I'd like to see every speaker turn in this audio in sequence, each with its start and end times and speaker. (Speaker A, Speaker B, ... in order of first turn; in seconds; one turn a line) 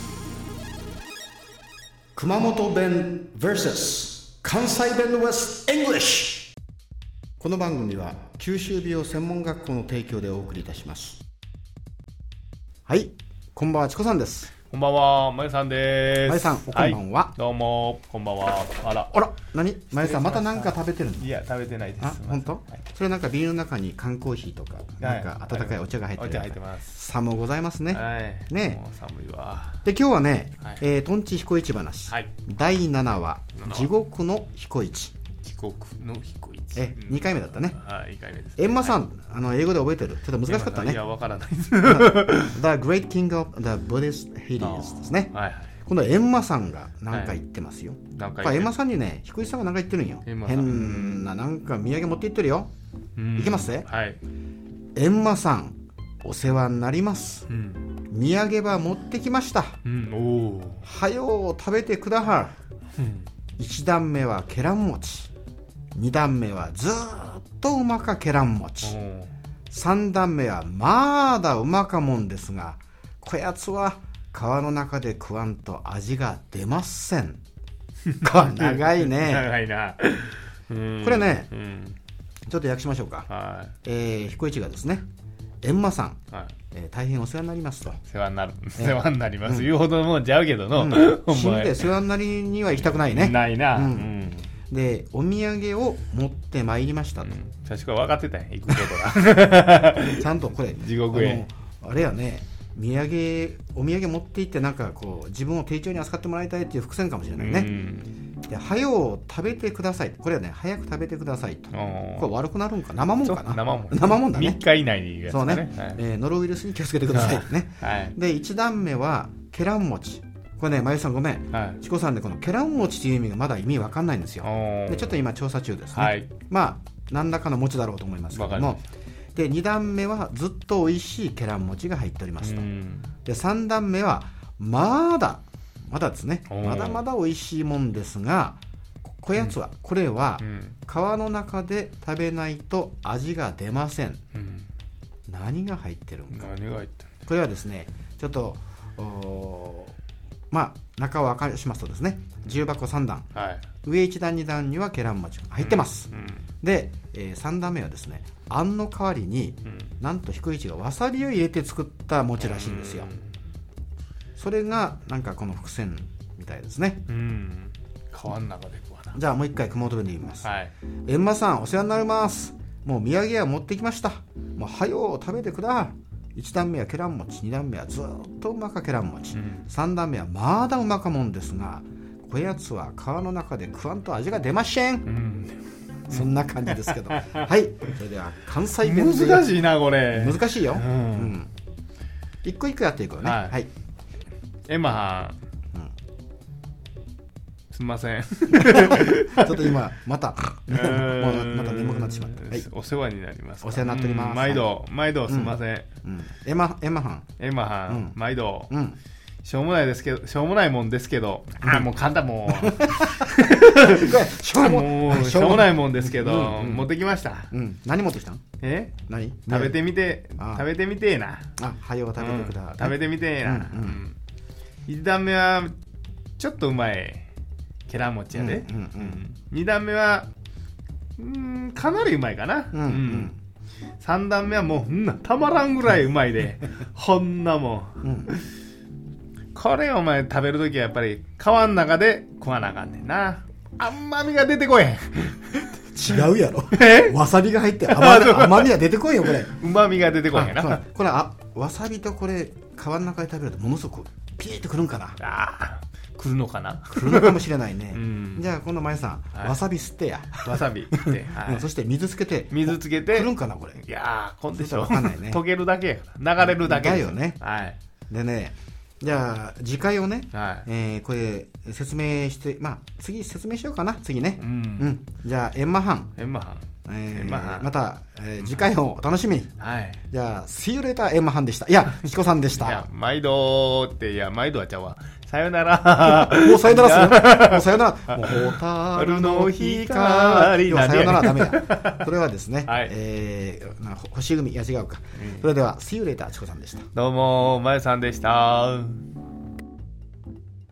Speaker A: 2.2-6.5
Speaker A: 7.4-11.2
Speaker A: 12.9-14.5
Speaker B: 14.7-19.1
Speaker A: 16.2-17.4
Speaker A: 19.1-21.3
Speaker B: 19.9-22.6
Speaker A: 22.0-28.8
Speaker B: 25.0-27.0
Speaker B: 27.9-29.8
Speaker A: 29.8-35.1
Speaker B: 33.5-33.9
Speaker B: 35.4-39.0
Speaker A: 36.7-37.8
Speaker A: 38.6-41.0
Speaker B: 40.5-42.6
Speaker A: 41.8-52.7
Speaker B: 44.6-45.7
Speaker B: 47.1-47.4
Speaker B: 48.1-48.7
Speaker B: 50.2-51.3
Speaker B: 53.2-54.2
Speaker A: 53.4-53.9
Speaker A: 55.0-57.5
Speaker B: 57.5-57.9
Speaker A: 58.1-59.8
Speaker B: 59.8-60.9
Speaker A: 60.8-62.5
Speaker B: 63.0-63.3
Speaker A: 63.6-65.3
Speaker A: 66.0-69.0
Speaker B: 68.8-69.3
Speaker A: 69.7-77.4
Speaker B: 78.1-82.0
Speaker A: 78.2-79.5
Speaker A: 81.0-81.5
Speaker A: 82.5-83.3
Speaker B: 83.3-83.7
Speaker A: 83.8-85.0
Speaker A: 85.6-86.2
Speaker A: 86.7-88.0
Speaker B: 88.1-91.9
Speaker A: 88.8-89.7
Speaker A: 90.8-94.1
Speaker B: 92.8-94.5
Speaker A: 94.7-97.3
Speaker B: 97.2-101.4
Speaker A: 100.1-107.7
Speaker B: 107.3-108.1
Speaker A: 108.5-114.6
Speaker B: 111.7-112.3
Speaker B: 113.2-116.0
Speaker A: 115.3-128.8
Speaker B: 117.1-118.2
Speaker B: 121.5-121.8
Speaker B: 124.4-125.2
Speaker B: 126.0-126.3
Speaker B: 128.3-128.8
Speaker A: 129.3-132.7
Speaker B: 132.4-133.1
Speaker A: 133.2-144.2
Speaker B: 136.5-137.0
Speaker B: 140.4-140.8
Speaker B: 144.3-144.7
Speaker A: 145.3-146.5
Speaker B: 146.3-147.1
Speaker A: 147.3-150.0
Speaker A: 150.5-153.3
Speaker B: 153.3-153.7
Speaker A: 153.8-156.1
Speaker B: 155.6-156.4
Speaker A: 156.6-163.1
Speaker B: 162.4-163.2
Speaker A: 164.4-167.1
Speaker B: 167.1-169.2
Speaker A: 169.1-170.5
Speaker B: 170.4-170.7
Speaker A: 171.1-185.1
Speaker B: 179.3-179.7
Speaker B: 185.1-187.5
Speaker A: 186.1-191.5
Speaker B: 188.8-191.4
Speaker A: 192.4-193.7
Speaker B: 193.2-193.6
Speaker B: 194.7-195.4
Speaker B: 197.7-199.8
Speaker A: 198.5-202.7
Speaker B: 200.7-205.9
Speaker A: 203.6-204.7
Speaker A: 205.3-207.3
Speaker B: 207.4-208.7
Speaker A: 207.9-208.2
Speaker A: 208.7-209.0
Speaker B: 209.4-217.5
Speaker A: 211.6-211.9
Speaker A: 212.5-216.9
Speaker A: 217.5-218.4
Speaker B: 218.6-218.9
Speaker A: 219.1-219.8
Speaker B: 219.5-221.5
Speaker A: 220.4-220.7
Speaker A: 221.6-224.0
Speaker B: 222.2-224.2
Speaker B: 224.9-225.8
Speaker B: 226.4-227.3
Speaker B: 227.9-230.3
Speaker A: 228.3-229.2
Speaker B: 231.2-233.3
Speaker A: 232.7-233.4
Speaker B: 234.0-238.4
Speaker A: 238.0-238.3
Speaker B: 239.5-245.6
Speaker A: 245.8-249.6
Speaker B: 246.7-247.2
Speaker B: 247.8-250.8
Speaker A: 250.3-255.2
Speaker B: 255.2-258.5
Speaker A: 256.9-263.8
Speaker B: 260.4-261.7
Speaker B: 262.5-267.8
Speaker A: 264.5-265.4
Speaker A: 266.4-267.4
Speaker A: 268.1-276.1
Speaker B: 270.3-270.7
Speaker B: 274.4-274.9
Speaker B: 276.2-277.7
Speaker A: 276.9-279.5
Speaker B: 278.4-278.6
Speaker B: 279.6-280.0
Speaker A: 280.1-282.9
Speaker B: 282.6-292.1
Speaker A: 286.0-296.9
Speaker B: 292.7-292.9
Speaker B: 295.1-295.5
Speaker B: 296.9-299.1